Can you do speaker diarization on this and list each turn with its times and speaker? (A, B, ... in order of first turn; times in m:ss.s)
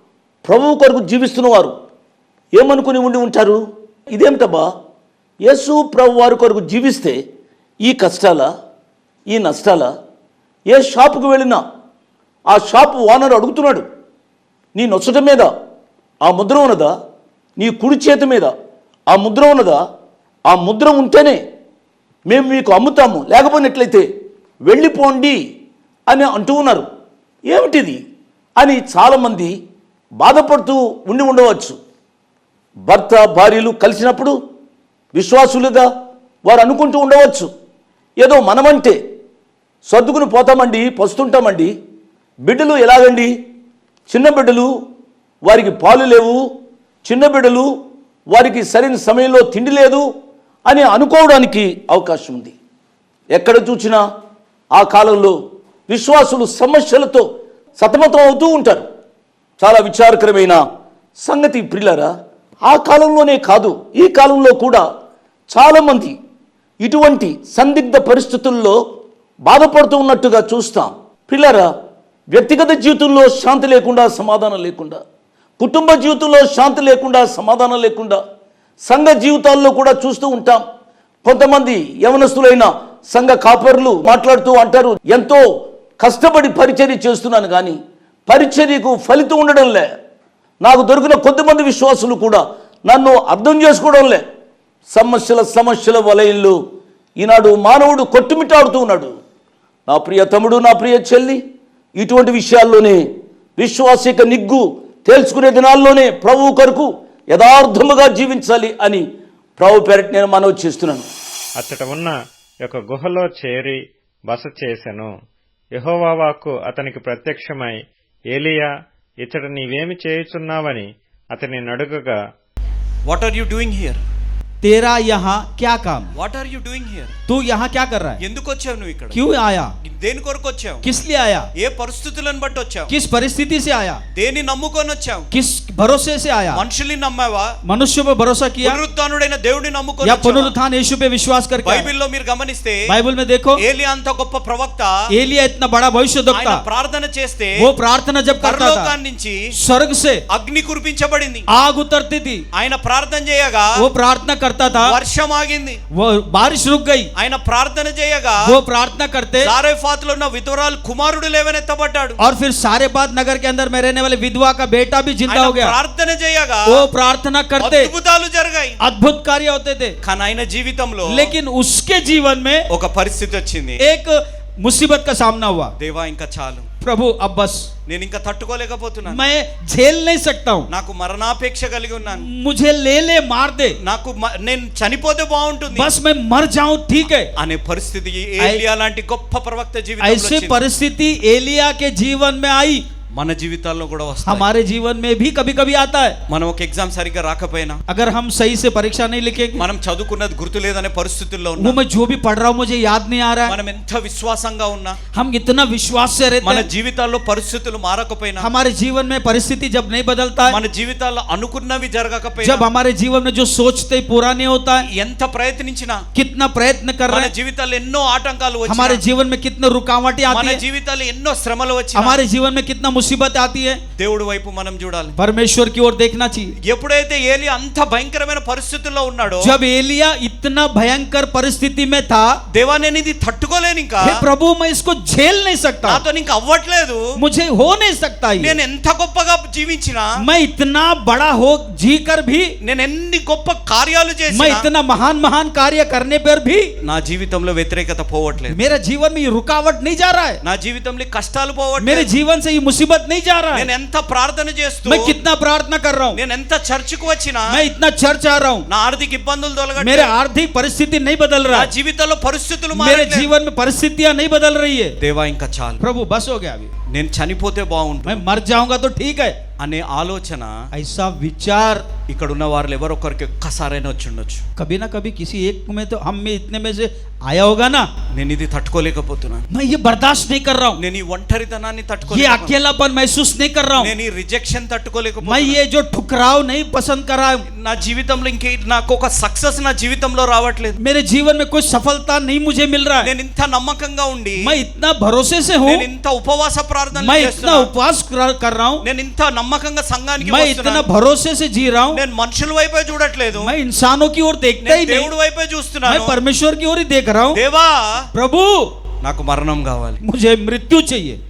0:00.4-0:01.7 A
0:02.6-0:04.7 A
0:05.4-0:07.2 A
0:07.8-0:08.5 A
0:09.3-0:09.9 A
0:10.7-0:11.6 A
0:12.5-0:13.8 A
0:14.8-0:15.5 A
0:16.2-0:16.9 A
0:17.6-0:18.5 A
0:19.1-0:19.8 A
0:20.5-0:21.4 A
0:22.3-0:24.0 A
0:24.7-0:25.4 A
0:26.1-0:26.8 A
0:27.5-0:28.0 A
0:28.6-0:29.5 A
0:30.2-0:31.8 A
0:32.9-0:34.4 A
0:35.2-0:35.9 A
0:36.4-0:37.5 A
0:38.2-0:39.0 A
0:39.9-0:41.7 A
0:42.5-0:43.3 A
0:44.1-0:44.7 A
0:45.4-0:46.4 A
0:47.0-0:47.7 A
0:48.3-0:50.0 A
0:50.7-0:52.6 A
0:53.3-0:54.0 A
0:54.7-0:55.4 A
0:55.9-0:57.2 A
0:57.8-0:58.8 A
0:59.6-1:00.6 A
1:01.2-1:02.1 A
1:02.7-1:04.8 A
1:05.5-1:06.2 A
1:06.8-1:08.8 A
1:09.4-1:11.7 A
1:12.3-1:15.0 A
1:15.6-1:18.2 A
1:18.8-1:20.6 A
1:21.2-1:25.4 A
1:26.0-1:29.9 A
1:30.6-1:34.2 A
1:34.9-1:36.6 A
1:37.2-1:39.1 A
1:39.9-1:41.4 A
1:42.0-1:43.0 A
1:43.6-1:49.0 A
1:49.6-1:51.0 A
1:51.6-1:55.1 B
1:55.7-2:02.2 B
2:03.1-2:04.0 C
2:04.6-2:06.1 D
2:06.2-2:07.1 C
2:07.3-2:08.2 D
2:08.2-2:09.2 C
2:09.1-2:09.7 D
2:09.9-2:10.8 C
2:10.8-2:11.5 D
2:11.6-2:12.9 C
2:12.9-2:14.0 D
2:14.1-2:15.3 C
2:15.3-2:16.6 D
2:16.5-2:17.5 C
2:17.7-2:18.8 D
2:18.6-2:20.6 C
2:20.0-2:21.9 D
2:21.6-2:22.9 C
2:22.9-2:23.6 D
2:23.6-2:24.9 C
2:25.1-2:26.6 D
2:26.3-2:27.6 C
2:27.6-2:28.9 D
2:28.4-2:29.4 C
2:29.6-2:30.2 D
2:30.3-2:31.5 C
2:31.5-2:32.4 D
2:32.5-2:33.8 C
2:33.8-2:35.0 D
2:34.8-2:35.8 C
2:35.9-2:37.1 D
2:37.2-2:38.6 C
2:38.4-2:39.5 D
2:39.4-2:42.2 C
2:42.2-2:45.8 D
2:45.3-2:46.8 C
2:46.7-2:47.9 D
2:47.6-2:48.8 C
2:48.8-2:50.0 D
2:50.0-2:51.3 C
2:51.1-2:52.7 D
2:52.7-2:53.8 C
2:53.8-2:55.7 D
2:55.8-2:56.7 C
2:56.8-2:57.7 D
2:57.9-2:59.2 C
2:59.1-3:00.7 D
3:00.7-3:02.3 C
3:02.0-3:03.8 D
3:03.8-3:05.9 C
3:05.7-3:07.3 D
3:07.4-3:10.6 C
3:10.0-3:12.8 D
3:13.1-3:14.5 C
3:14.2-3:16.2 D
3:16.3-3:17.8 C
3:17.9-3:19.6 D
3:19.5-3:21.8 C
3:21.6-3:23.6 D
3:23.5-3:25.0 C
3:25.1-3:26.7 D
3:26.4-3:28.5 C
3:28.4-3:30.6 D
3:30.5-3:32.7 C
3:32.4-3:34.8 D
3:34.8-3:36.0 C
3:36.2-3:37.3 D
3:37.1-3:39.0 C
3:38.7-3:40.6 D
3:40.3-3:42.2 C
3:42.0-3:43.8 D
3:44.0-3:45.2 C
3:45.2-3:46.5 D
3:46.6-3:49.6 C
3:49.4-3:52.3 D
3:52.5-3:54.2 C
3:54.0-3:56.0 D
3:55.9-3:57.0 C
3:57.2-3:58.6 D
3:58.4-4:00.1 C
4:00.2-4:02.5 D
4:02.6-4:04.7 C
4:04.3-4:06.7 D
4:06.8-4:08.6 C
4:08.5-4:10.4 D
4:10.4-4:12.1 C
4:11.8-4:13.7 D
4:13.5-4:15.2 C
4:14.9-4:16.2 D
4:16.1-4:17.5 C
4:17.5-4:18.7 D
4:18.7-4:20.1 C
4:19.8-4:21.7 D
4:21.5-4:23.3 C
4:22.7-4:25.0 D
4:25.0-4:25.8 C
4:25.8-4:26.7 D
4:26.9-4:28.2 C
4:28.0-4:29.4 D
4:29.6-4:30.5 C
4:30.7-4:31.9 D
4:32.1-4:34.4 C
4:34.6-4:37.9 D
4:38.1-4:39.4 C
4:39.5-4:40.8 D
4:40.8-4:42.6 C
4:42.1-4:43.9 D
4:43.8-4:45.6 C
4:45.2-4:47.4 D
4:47.5-4:50.8 C
4:50.8-4:53.1 D
4:53.0-4:54.4 C
4:54.4-4:55.9 D
4:55.6-4:57.7 C
4:56.9-4:58.8 D
4:58.8-5:00.9 C
5:00.2-5:02.0 D
5:01.9-5:03.5 C
5:03.4-5:05.1 D
5:04.6-5:06.2 C
5:05.8-5:07.4 D
5:07.3-5:07.9 C
5:08.2-5:08.7 D
5:09.0-5:10.0 C
5:10.0-5:11.2 D